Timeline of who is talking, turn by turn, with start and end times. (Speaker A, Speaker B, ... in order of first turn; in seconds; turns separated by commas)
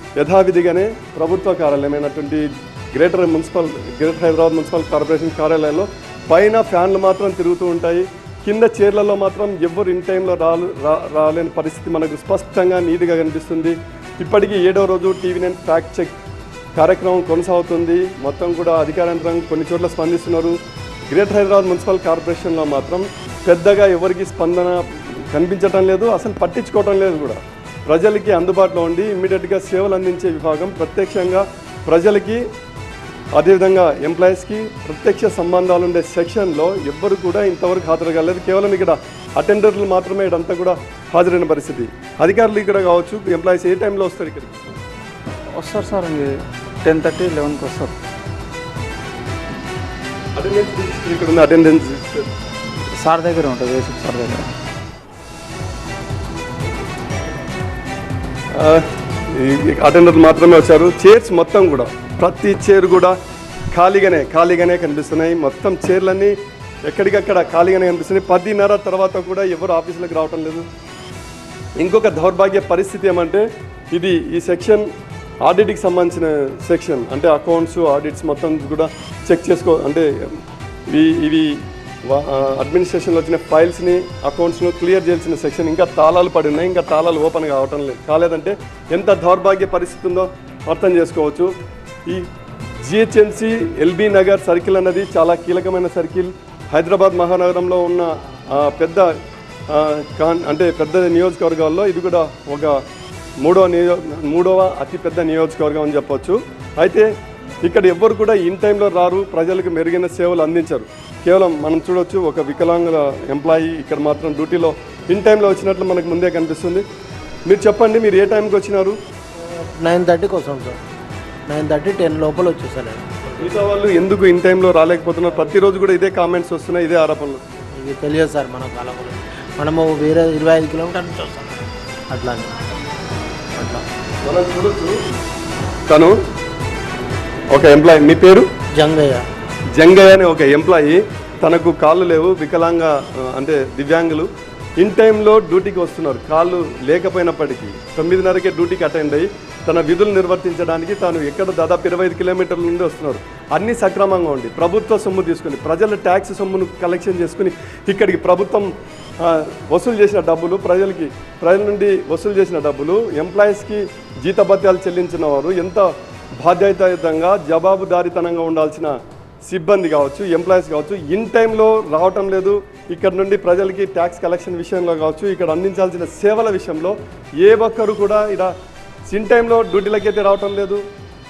Speaker A: 0.2-16.1, Speaker A: 16.8-20.6, Speaker A: 21.1-24.8, Speaker A: 25.3-32.4, Speaker A: 33.4-44.8, Speaker B: 45.5-48.0, Speaker A: 50.4-52.3, Speaker B: 52.9-54.5, Speaker A: 58.6-58.8, Speaker A: 59.3-63.1, Speaker A: 63.7-66.3, Speaker A: 66.9-70.6, Speaker A: 71.8-74.8, Speaker A: 75.5-80.4, Speaker A: 80.9-81.5, Speaker A: 82.1-91.5, Speaker A: 92.8-99.0, Speaker A: 99.7-102.8, Speaker A: 103.4-107.1, Speaker A: 107.6-116.8, Speaker A: 117.5-119.0, Speaker C: 119.7-120.8, Speaker C: 121.5-123.6, Speaker A: 123.4-127.4, Speaker C: 127.8-132.5, Speaker C: 133.5-133.8, Speaker A: 134.2-134.9, Speaker A: 135.9-136.2, Speaker A: 137.5-138.5, Speaker C: 138.7-139.3, Speaker A: 139.8-144.3, Speaker A: 144.8-158.6, Speaker A: 159.2-165.8, Speaker A: 166.4-168.9, Speaker A: 169.4-178.5, Speaker A: 179.1-180.8